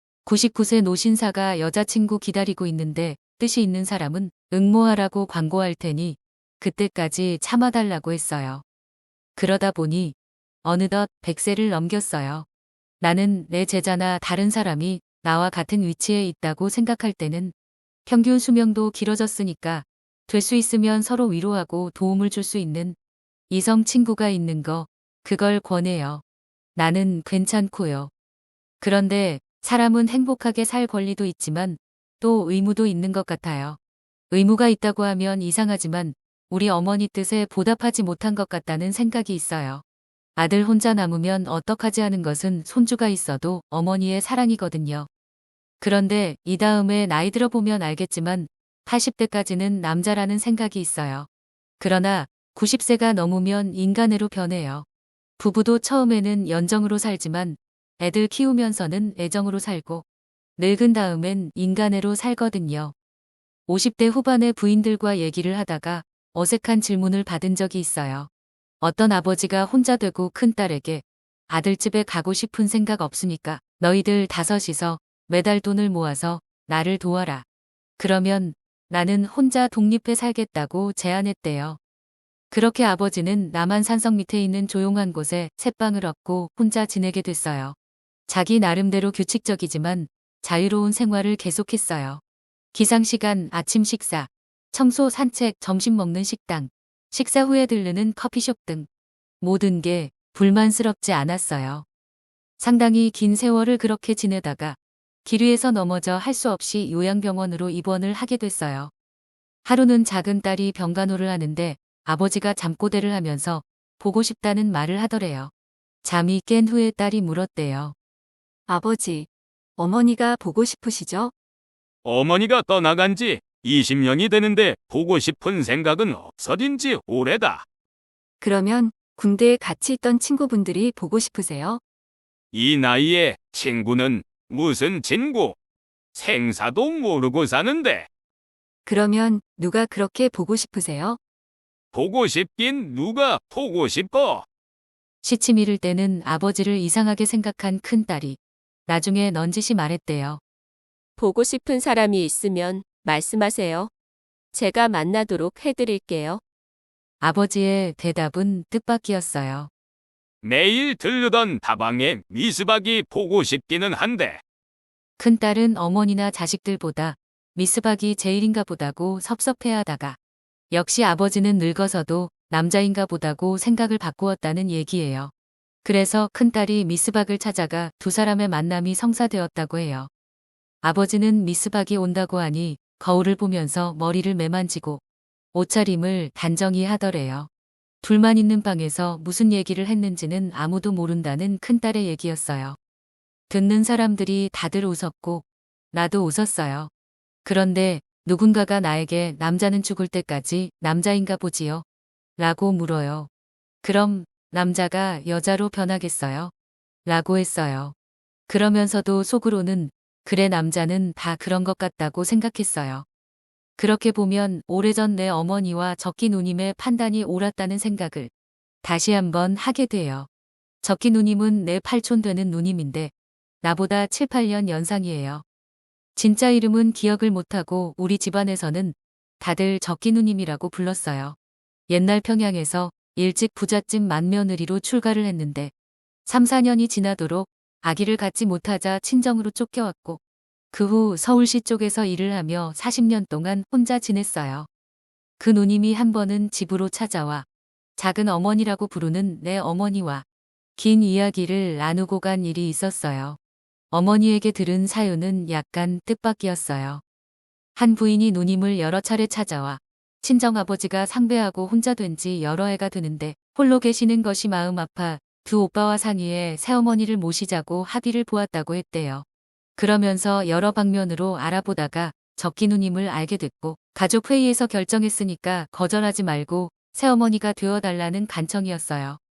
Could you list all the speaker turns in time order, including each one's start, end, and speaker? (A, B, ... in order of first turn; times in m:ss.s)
0:00.2-0:08.6 A
0:09.4-0:12.4 A
0:13.0-0:17.5 A
0:18.0-0:23.0 A
0:23.5-0:26.2 A
0:26.8-0:28.1 A
0:28.8-0:33.8 A
0:34.3-0:39.8 A
0:40.4-0:45.1 A
0:45.8-0:51.3 A
0:51.8-0:54.8 A
0:55.4-1:00.0 A
1:00.6-1:02.9 A
1:03.7-1:08.3 A
1:08.8-1:17.4 A
1:18.0-1:21.8 A
1:22.5-1:27.7 A
1:28.3-1:32.2 A
1:32.7-1:38.9 A
1:39.4-1:41.8 A
1:42.6-1:48.9 A
1:49.6-1:55.5 A
1:56.0-1:57.9 A
1:58.7-2:01.3 B
2:02.0-2:07.6 C
2:08.4-2:11.8 B
2:12.5-2:15.6 C
2:16.1-2:18.1 C
2:18.8-2:21.2 B
2:21.9-2:24.4 C
2:25.2-2:30.4 A
2:31.2-2:33.9 D
2:34.5-2:36.4 D
2:37.2-2:39.7 A
2:40.4-2:44.4 C
2:45.2-2:50.2 A
2:50.7-2:55.3 A
2:55.8-3:00.1 A
3:00.8-3:05.0 A
3:05.5-3:07.5 A
3:08.0-3:12.8 A
3:13.5-3:16.9 A
3:17.4-3:21.8 A
3:22.4-3:23.3 A
3:23.8-3:26.5 A
3:27.0-3:27.9 A
3:28.5-3:33.0 A
3:33.8-3:38.3 A
3:38.8-3:40.3 A
3:40.8-3:45.4 A
3:46.2-3:51.4 A
3:51.9-3:55.7 A
3:56.2-4:00.2 A
4:00.7-4:04.7 A
4:05.4-4:07.4 A
4:08.0-4:10.2 A
4:10.8-4:13.4 A
4:13.9-4:17.0 A
4:17.8-4:29.2 A
4:29.8-4:39.2 A